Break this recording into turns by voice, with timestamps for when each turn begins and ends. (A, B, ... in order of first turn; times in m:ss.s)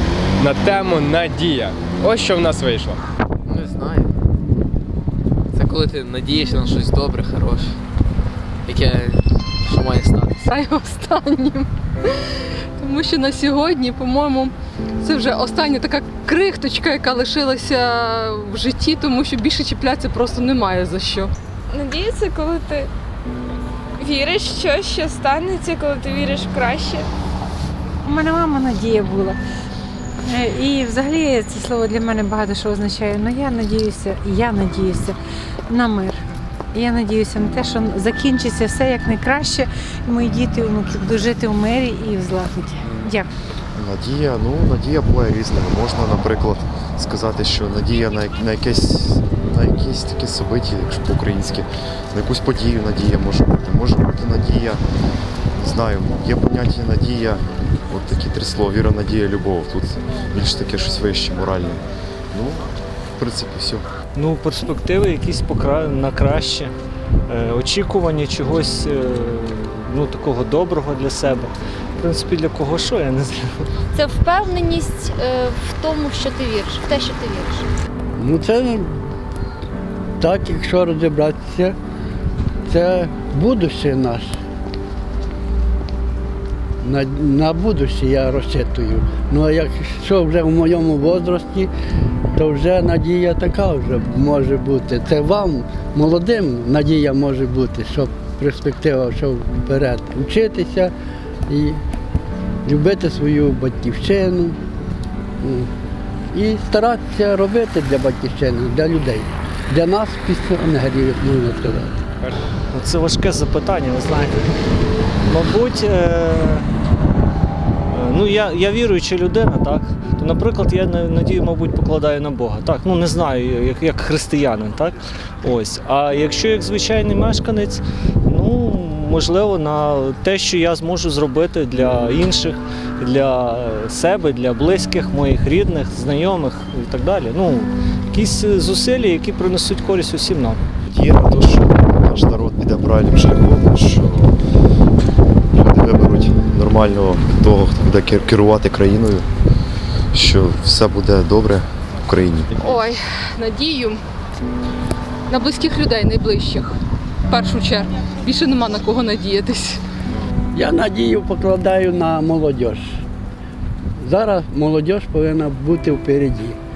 0:00.4-0:03.0 A
0:03.5-0:04.1 B
0:05.5-0:07.8 B
0:08.7-0:10.4 B
0:10.4-0:12.2 C
0:12.8-0:21.3 C
0:21.7-0:22.9 D
0:24.0-0:27.1 D
0:28.0-0:29.4 E
0:30.3-0:35.2 E
0:35.7-0:36.2 E
0:36.7-0:43.3 E
0:43.8-0:54.8 F
0:55.6-1:01.8 F
1:02.3-1:03.8 F
1:04.2-1:06.7 G
1:07.3-1:13.4 G
1:13.9-1:17.7 H
1:18.2-1:18.9 I
1:20.2-1:21.8 I
1:22.7-1:24.3 I
1:26.8-1:31.7 I
1:32.4-1:40.9 I
1:41.5-1:41.8 I
1:42.6-1:44.6 I
1:45.4-1:45.7 I
1:46.3-1:52.0 I
1:52.7-1:54.5 G
1:55.3-1:56.7 G
1:57.9-2:20.6 G
2:20.9-2:24.4 F
2:25.5-2:29.3 F
2:30.1-2:32.9 F
2:32.6-2:34.0 C
2:35.3-2:36.8 C
2:37.3-2:39.8 C
2:40.5-2:43.0 I
2:44.0-2:46.6 I